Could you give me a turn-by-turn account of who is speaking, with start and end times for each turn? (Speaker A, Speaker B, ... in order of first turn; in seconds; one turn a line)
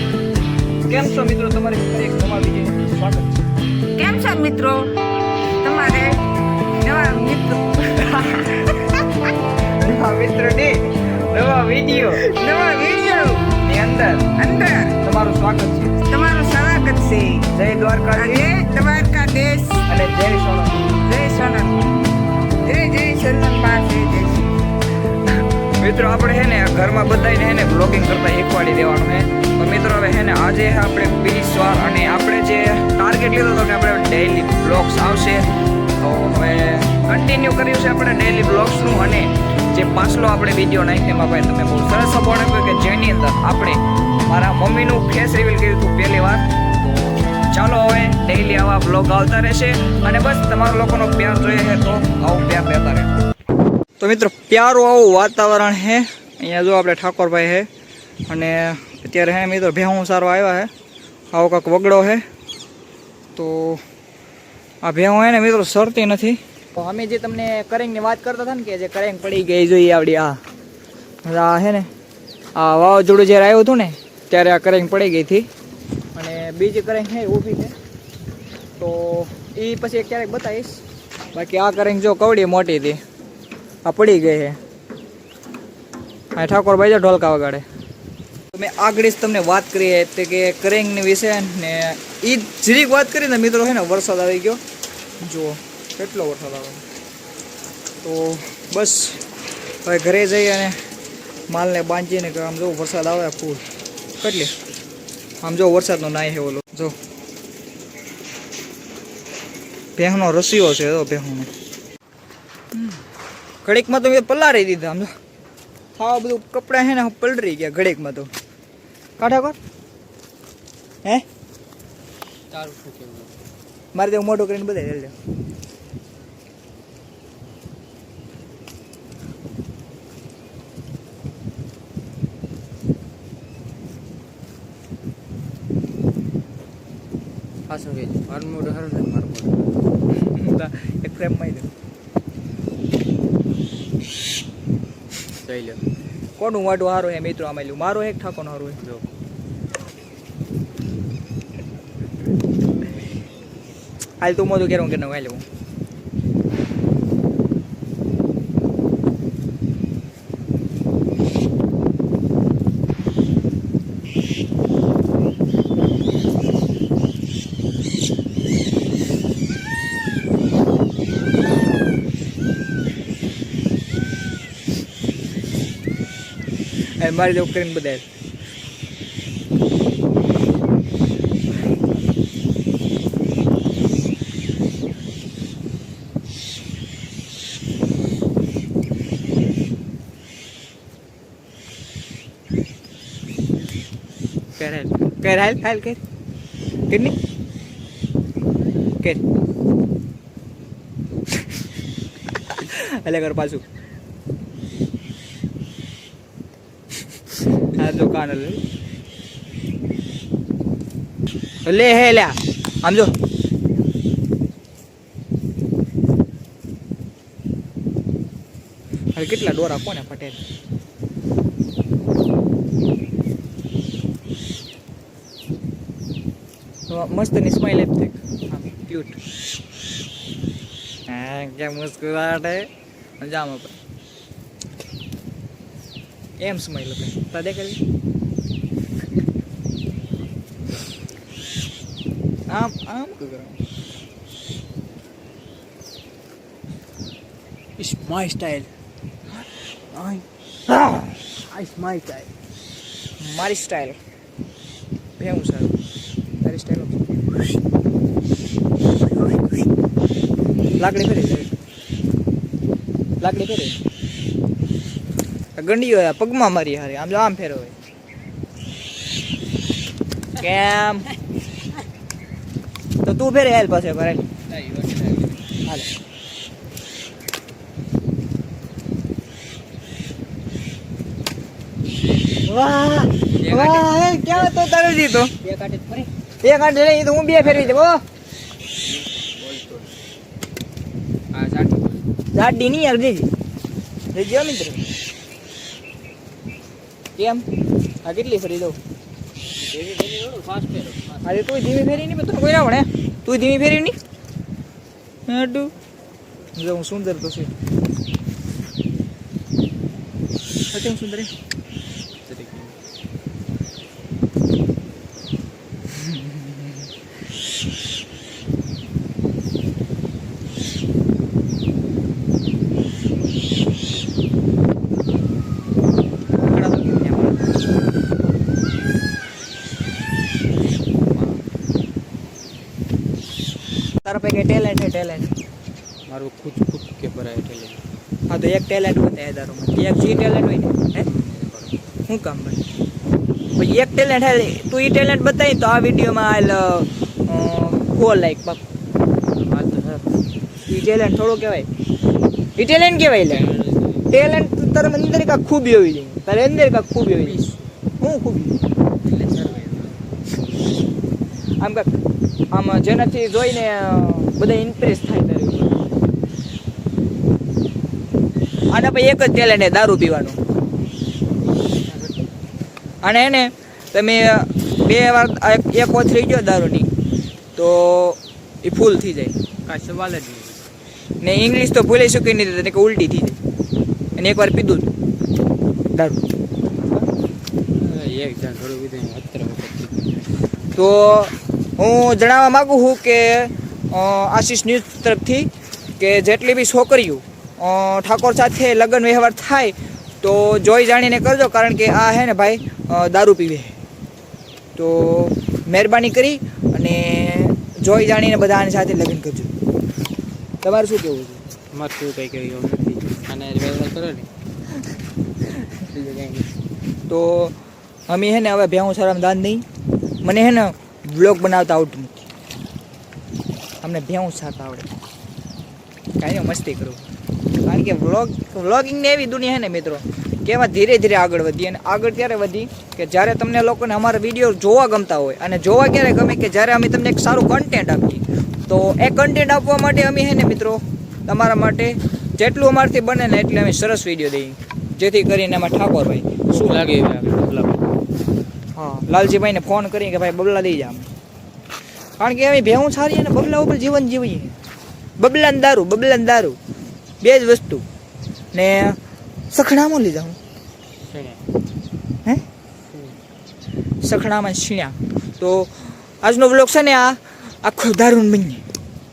Speaker A: 0.9-3.3
Speaker B: 3.9-4.9
Speaker B: 5.6-6.2
Speaker B: 6.8-8.2
Speaker A: 8.0-9.0
Speaker A: 9.7-12.3
Speaker B: 12.2-13.5
Speaker A: 13.5-14.3
Speaker B: 14.3-15.0
Speaker A: 15.0-16.0
Speaker B: 16.0-17.5
Speaker A: 17.5-18.5
Speaker B: 18.1-19.8
Speaker A: 19.9-20.9
Speaker B: 20.9-21.9
Speaker B: 22.6-24.5
Speaker A: 25.8-35.5
Speaker A: 36.0-46.4
Speaker A: 47.5-53.1
Speaker A: 54.0-57.7
Speaker A: 58.3-60.7
Speaker A: 61.3-62.2
Speaker A: 63.3-63.8
Speaker A: 64.8-70.4
Speaker A: 71.2-71.9
Speaker A: 72.5-75.5
Speaker A: 76.1-77.7
Speaker A: 78.8-80.8
Speaker A: 81.3-83.0
Speaker A: 83.8-84.6
Speaker A: 86.3-87.6
Speaker A: 88.5-94.6
Speaker A: 95.2-96.8
Speaker A: 98.0-99.2
Speaker A: 99.8-100.8
Speaker A: 101.5-103.6
Speaker A: 104.2-104.5
Speaker A: 105.4-106.9
Speaker A: 110.0-111.5
Speaker A: 112.7-113.0
Speaker A: 113.6-115.1
Speaker A: 116.0-118.3
Speaker A: 119.2-119.6
Speaker C: 122.5-123.3
Speaker A: 123.9-125.1
Speaker C: 137.7-139.7
Speaker A: 140.1-141.7
Speaker C: 145.4-145.8
Speaker A: 146.4-148.8
Speaker C: 148.8-149.1
Speaker A: 154.2-155.4
Speaker A: 177.0-178.0
Speaker A: 194.6-196.0
Speaker A: 196.9-197.1
Speaker A: 202.5-203.6
Speaker A: 207.7-208.6
Speaker A: 211.7-213.1
Speaker A: 219.1-220.4
Speaker A: 226.9-229.2
Speaker A: 231.1-232.7
Speaker A: 233.2-233.8
Speaker A: 236.4-237.8
Speaker A: 242.5-243.6
Speaker C: 247.8-248.7
Speaker C: 249.9-252.3
Speaker A: 253.2-254.0
Speaker A: 255.2-255.7
Speaker A: 256.4-257.0
Speaker A: 260.8-261.5
Speaker A: 263.2-263.8
Speaker A: 265.6-267.7
Speaker A: 270.4-271.1
Speaker A: 273.0-274.3
Speaker C: 274.5-275.4
Speaker A: 282.5-285.3
Speaker C: 283.4-284.5
Speaker C: 285.4-286.1
Speaker A: 286.4-288.0
Speaker C: 287.4-287.9
Speaker C: 288.8-289.9
Speaker C: 291.3-292.0
Speaker A: 292.3-293.3
Speaker A: 294.1-294.8
Speaker A: 297.2-297.4
Speaker A: 298.0-298.8
Speaker C: 299.5-301.5
Speaker A: 301.2-303.9
Speaker A: 305.3-305.7
Speaker A: 306.6-307.5
Speaker A: 310.7-311.3
Speaker C: 312.2-312.8
Speaker A: 315.9-316.7
Speaker A: 326.4-327.5
Speaker A: 334.0-335.3
Speaker C: 336.1-337.8
Speaker A: 338.3-341.1
Speaker C: 341.0-341.7
Speaker A: 342.1-342.6
Speaker A: 343.5-348.6
Speaker C: 349.4-350.0
Speaker A: 350.6-351.7
Speaker A: 352.6-353.5
Speaker C: 353.3-354.2
Speaker A: 354.1-357.4
Speaker C: 357.1-357.6
Speaker A: 358.0-358.6
Speaker C: 359.0-360.0
Speaker A: 361.6-361.9
Speaker A: 362.5-365.8
Speaker A: 368.7-370.4
Speaker C: 371.9-372.2
Speaker A: 373.0-376.9
Speaker A: 377.6-379.3
Speaker C: 379.6-380.6
Speaker A: 381.2-383.4
Speaker A: 384.1-384.9
Speaker A: 385.9-386.2
Speaker C: 387.8-390.3
Speaker A: 390.7-403.7
Speaker A: 404.8-409.5
Speaker A: 410.6-411.4
Speaker C: 411.7-414.3
Speaker C: 415.7-416.5
Speaker A: 417.1-417.6
Speaker A: 418.1-419.6
Speaker A: 420.2-422.1
Speaker A: 423.8-424.9
Speaker A: 426.2-427.1
Speaker A: 427.6-446.8
Speaker C: 446.5-447.8
Speaker A: 448.8-451.1
Speaker A: 452.2-454.6
Speaker A: 455.2-456.6
Speaker A: 457.2-457.8
Speaker A: 458.5-459.0
Speaker A: 459.5-460.4
Speaker C: 461.0-461.4
Speaker C: 462.9-463.2
Speaker A: 464.0-468.6